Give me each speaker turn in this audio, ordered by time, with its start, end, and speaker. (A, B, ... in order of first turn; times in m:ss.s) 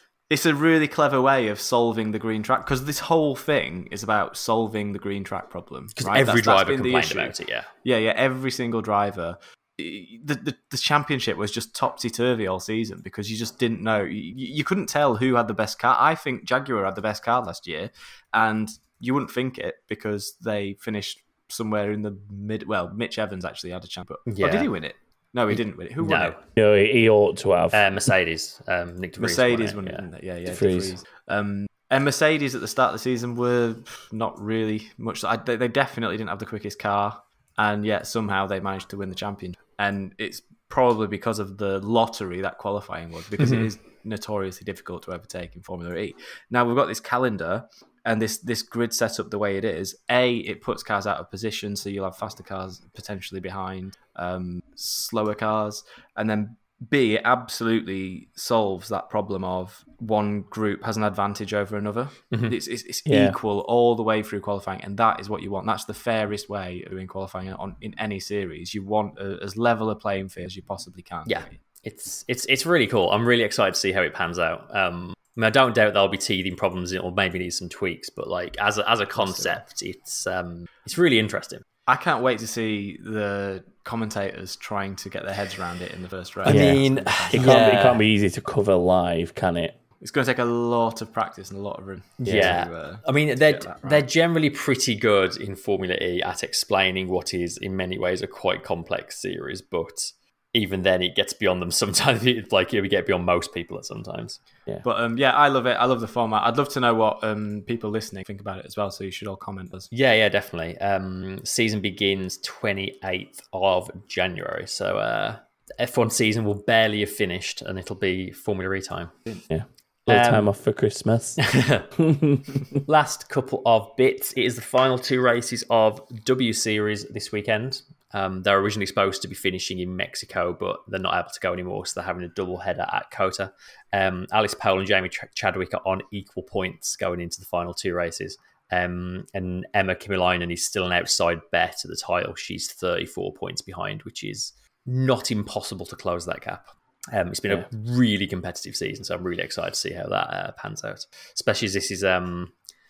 0:00.3-0:26.4 A
0:06.0-0:07.7 B
0:24.3-0:24.7 B
0:26.0-0:26.4 B
0:26.6-0:27.8 C
0:27.7-0:30.1 B
0:29.2-1:11.6 A
0:30.5-0:31.0 C
0:43.4-0:43.7 B
1:03.1-1:03.4 C
1:11.2-1:21.6 B
1:19.1-1:19.6 A
1:21.9-1:27.8 A
1:26.4-1:28.0 B
1:26.4-1:26.8 C
1:27.3-1:29.8 C
1:30.0-1:34.0 A
1:32.2-1:32.6 C
1:32.2-1:44.4 B
1:44.8-1:49.9 A
1:49.9-1:59.2 B
1:59.5-2:02.7 C
2:00.1-2:00.5 B
2:01.4-2:01.9 B
2:02.8-2:32.5 B